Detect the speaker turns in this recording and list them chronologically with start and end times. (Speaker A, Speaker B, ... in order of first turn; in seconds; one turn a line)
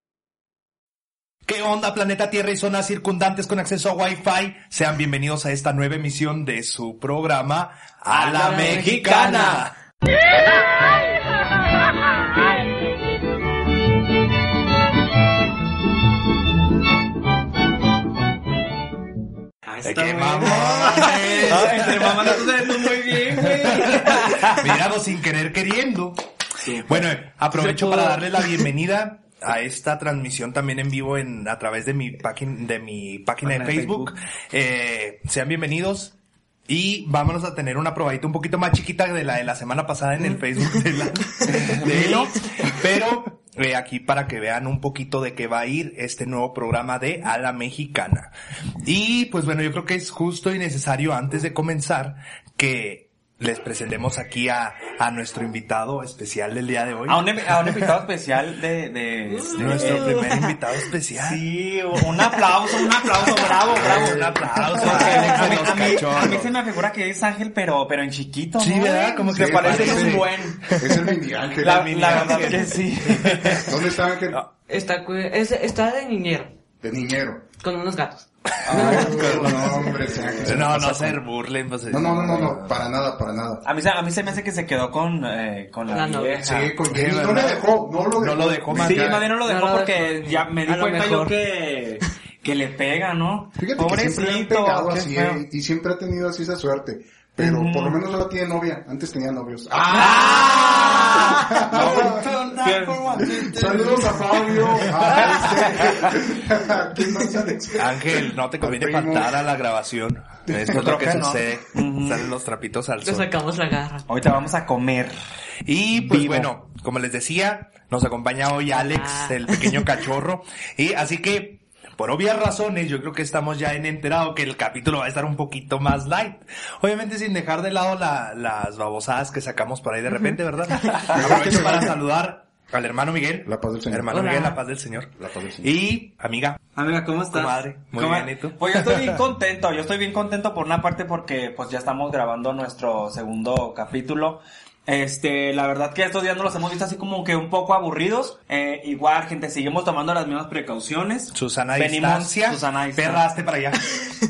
Speaker A: 1.4-9.7
Speaker B: 8.1-9.7
Speaker C: 8.4-9.6
Speaker B: 19.6-24.7
Speaker A: 19.8-22.5
Speaker A: 23.3-26.2
Speaker B: 26.6-27.2
Speaker A: 26.9-36.1
Speaker B: 33.4-34.1
Speaker A: 36.7-48.3
Speaker B: 41.4-42.4
Speaker A: 48.8-57.9
Speaker B: 57.1-60.4
Speaker C: 59.3-60.3
Speaker A: 59.5-61.4
Speaker B: 61.2-71.0
Speaker A: 63.6-66.5
Speaker D: 63.7-64.9
Speaker A: 68.6-70.7
Speaker D: 69.3-72.5
Speaker B: 71.6-73.7
Speaker A: 71.6-73.7
Speaker D: 73.6-74.4
Speaker C: 74.7-76.5
Speaker D: 76.8-77.5
Speaker C: 77.6-80.0
Speaker A: 78.6-82.9
Speaker D: 78.6-81.2
Speaker D: 81.9-83.6
Speaker B: 83.6-86.8
Speaker C: 85.9-86.5
Speaker D: 86.4-89.3
Speaker A: 86.9-89.2
Speaker B: 88.7-95.4
Speaker C: 89.4-91.4
Speaker D: 93.6-102.3
Speaker B: 97.4-98.0
Speaker A: 99.9-106.0
Speaker B: 100.0-101.8
Speaker C: 100.2-101.3
Speaker B: 102.6-103.0
Speaker D: 103.2-109.4
Speaker B: 105.3-106.1
Speaker A: 107.8-113.3
Speaker D: 110.5-110.8
Speaker B: 110.7-112.3
Speaker C: 113.0-114.0
Speaker B: 114.1-115.1
Speaker A: 115.7-136.6
Speaker B: 115.9-116.5
Speaker C: 118.7-119.8
Speaker B: 131.1-131.3
Speaker D: 131.1-132.0
Speaker D: 133.4-134.2
Speaker C: 134.1-134.6
Speaker D: 135.2-135.7
Speaker B: 136.8-153.2
Speaker A: 137.3-139.2
Speaker A: 151.3-154.1